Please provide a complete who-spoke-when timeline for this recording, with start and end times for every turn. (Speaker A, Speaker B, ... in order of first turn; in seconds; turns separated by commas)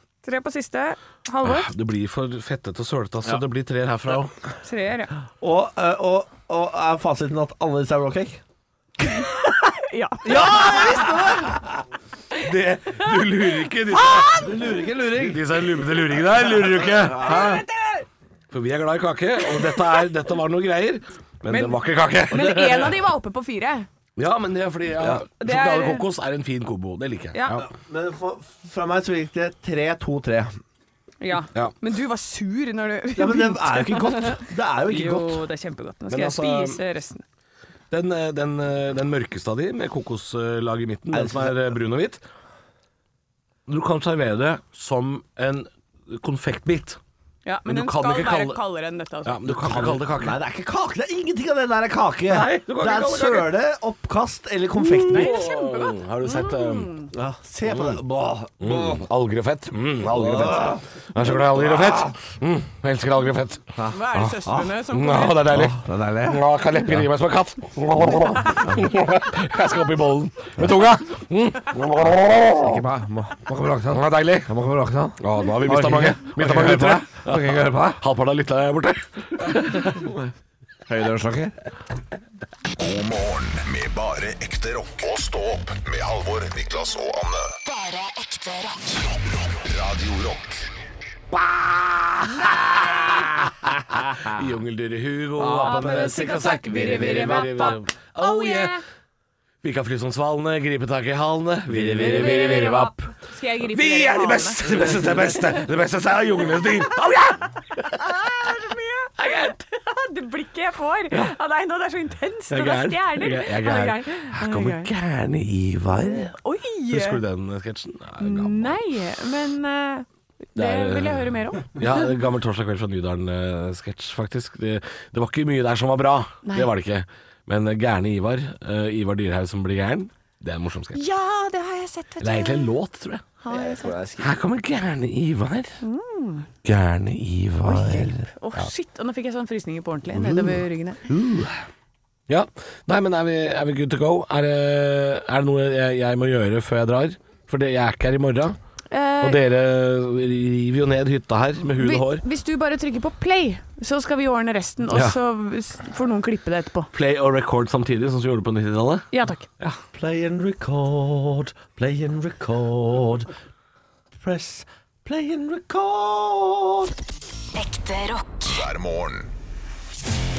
Speaker A: 0.2-1.7, Speaker B: 1.4-4.3, Speaker A: 4.6-5.1, Speaker C: 5.4-8.4, Speaker A: 9.0-11.1, Speaker C: 10.2-11.8, Speaker B: 12.4-14.3, Speaker A: 13.9-14.6, Speaker C: 14.0-15.4, Speaker B: 15.2-17.6, Speaker C: 16.6-17.6, Speaker A: 17.1-18.1, Speaker B: 18.5-22.9, Speaker A: 19.6-20.0, Speaker A: 21.5-21.8, Speaker A: 22.3-23.9, Speaker B: 24.2-27.7, Speaker C: 25.0-25.2, Speaker A: 25.4-26.1, Speaker A: 27.3-27.6, Speaker C: 27.6-30.6, Speaker A: 31.2-37.2, Speaker C: 33.2-35.4, Speaker B: 36.1-36.8, Speaker B: 37.9-42.2, Speaker C: 41.1-41.6, Speaker B: 43.7-47.0, Speaker A: 47.5-49.5, Speaker B: 47.7-48.6, Speaker B: 49.2-50.4, Speaker C: 49.5-55.5, Speaker B: 52.3-53.5, Speaker B: 54.9-56.9, Speaker A: 54.9-57.1, Speaker C: 57.1-59.0, Speaker B: 57.7-58.0, Speaker B: 58.6-72.8, Speaker C: 60.0-62.1, Speaker C: 63.8-64.7, Speaker A: 63.9-65.5, Speaker C: 65.5-66.4, Speaker C: 68.6-68.9, Speaker C: 72.5-78.0, Speaker B: 73.9-74.5, Speaker B: 75.2-80.3, Speaker C: 80.9-81.5, Speaker D: 82.8-87.5, Speaker E: 87.7-89.0, Speaker D: 89.5-90.6, Speaker B: 91.3-98.8, Speaker C: 93.8-94.4, Speaker C: 95.4-97.8, Speaker A: 95.6-98.8, Speaker B: 99.6-108.2, Speaker C: 101.7-102.7, Speaker A: 102.0-104.6, Speaker C: 104.7-105.6, Speaker A: 108.0-114.9, Speaker B: 109.2-109.6, Speaker B: 112.5-116.3, Speaker A: 116.1-117.2, Speaker B: 116.9-118.8, Speaker A: 118.2-121.8, Speaker B: 120.6-131.0, Speaker A: 126.4-126.7, Speaker A: 130.9-132.7, Speaker B: 132.2-133.2, Speaker A: 133.4-134.0, Speaker C: 133.5-134.4, Speaker B: 134.2-135.8, Speaker A: 135.8-136.5, Speaker B: 136.6-138.7, Speaker A: 137.6-141.0, Speaker B: 140.1-141.6, Speaker B: 142.3-148.6, Speaker A: 148.9-149.4, Speaker B: 149.2-152.2, Speaker A: 151.8-156.9, Speaker B: 154.9-155.2, Speaker B: 156.9-159.8, Speaker A: 159.1-159.4, Speaker C: 159.9-163.3, Speaker C: 164.2-166.9, Speaker E: 167.5-168.6, Speaker D: 168.4-169.3